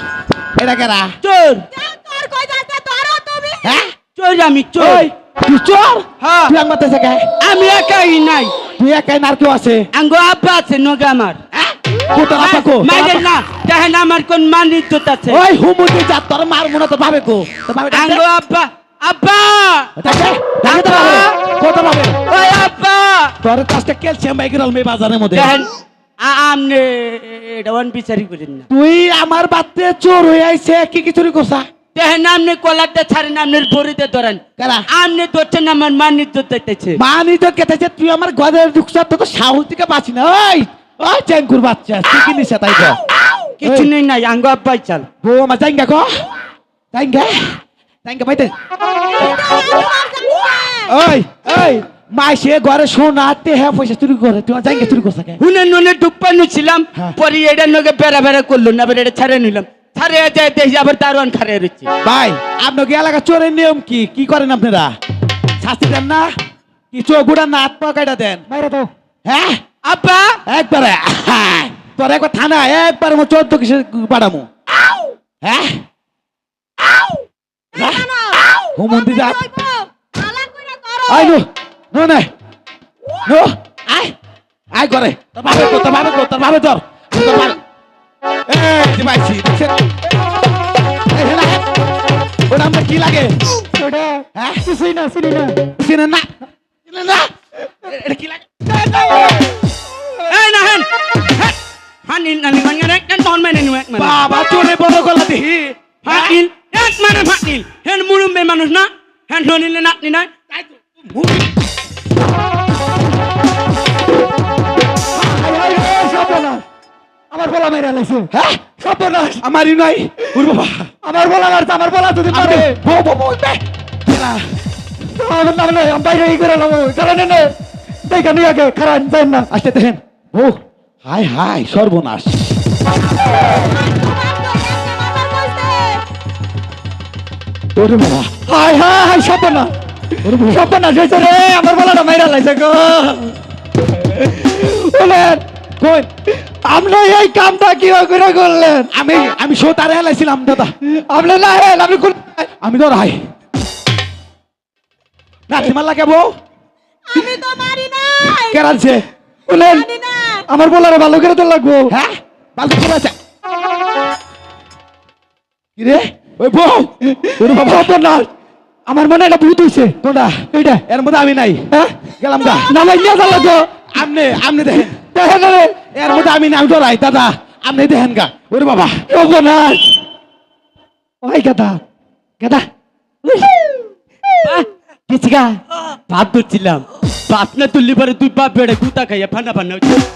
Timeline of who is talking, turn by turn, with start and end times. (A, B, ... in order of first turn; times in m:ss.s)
0:00.6-0:01.2 A
0:01.2-0:01.7 B
0:01.7-0:03.6 C
0:03.6-0:03.9 A
0:04.2-0:05.1 B
0:04.8-0:07.3 A
0:06.2-0:06.6 B
0:07.4-0:08.6 B
0:08.8-0:09.9 A
0:09.9-0:11.4 B
0:11.5-0:13.2 A
0:12.3-0:15.4 B
0:15.3-0:18.2 A
0:17.9-0:20.0 B
0:20.0-0:22.2 A
0:20.6-0:21.4 B
0:22.3-0:23.3 B
0:23.4-0:25.6 A
0:25.3-0:28.7 B
0:28.7-0:31.7 A
0:32.0-0:34.4 B
0:34.6-0:34.8 A
0:34.9-0:37.0 B
0:37.0-0:43.0 A
0:43.6-0:45.1 B
0:43.6-0:43.9 A
0:45.2-0:46.3 A
0:46.9-0:48.5 A
0:49.0-0:50.9 C
0:50.9-0:55.4 A
0:55.4-1:01.9 B
1:02.0-1:04.9 A
1:05.6-1:06.3 A
1:06.9-1:08.4 A
1:08.5-1:08.9 D
1:09.3-1:09.6 A
1:09.8-1:10.4 B
1:10.5-1:14.5 A
1:15.4-1:15.8 A
1:17.7-1:21.4 C
1:17.8-1:18.1 A
1:18.8-1:19.4 A
1:21.1-1:22.3 A
1:23.2-1:24.1 A
1:24.7-1:27.6 A
1:28.5-1:29.8 A
1:31.1-1:31.7 A
1:32.5-1:33.4 A
1:33.7-1:35.6 D
1:34.4-1:34.6 A
1:35.7-1:36.3 A
1:36.9-1:38.5 A
1:38.7-1:39.4 D
1:40.3-1:44.2 B
1:44.0-1:46.4 A
1:46.0-1:50.3 B
1:50.6-1:51.5 A
1:55.1-1:56.6 D
1:57.3-1:59.4 D
1:58.3-1:58.6 A
1:59.4-2:00.9 A
2:01.0-2:02.8 D
2:02.3-2:04.5 A
2:05.1-2:07.5 D
2:08.1-2:09.5 D
2:09.5-2:12.4 A
2:13.4-2:16.0 C
2:17.8-2:18.3 A
2:18.5-2:19.7 D
2:20.2-2:20.6 A
2:20.3-2:23.4 D
2:24.2-2:25.4 D
2:25.8-2:26.1 A
2:26.5-2:28.9 D
2:28.9-2:30.7 A
2:30.8-2:32.5 D
2:32.6-2:33.2 A
2:35.5-2:36.4 A
2:37.1-2:38.6 C
2:38.4-2:39.0 A
2:39.5-2:39.9 D
2:39.6-2:40.5 C
2:40.5-2:42.0 D
2:41.9-2:43.2 A
2:45.8-2:47.9 A
2:47.0-2:48.3 D
2:48.9-2:50.0 D
2:50.0-2:51.7 A
2:50.5-2:50.8 D
2:51.7-2:53.7 D
2:52.2-2:52.7 A
2:53.9-2:55.0 A
2:55.0-2:55.8 D
2:55.9-2:59.0 A
2:59.1-3:00.0 D
3:01.2-3:01.8 D
3:02.4-3:02.7 D
3:03.2-3:03.7 D
3:05.1-3:05.6 D
3:05.8-3:10.0 B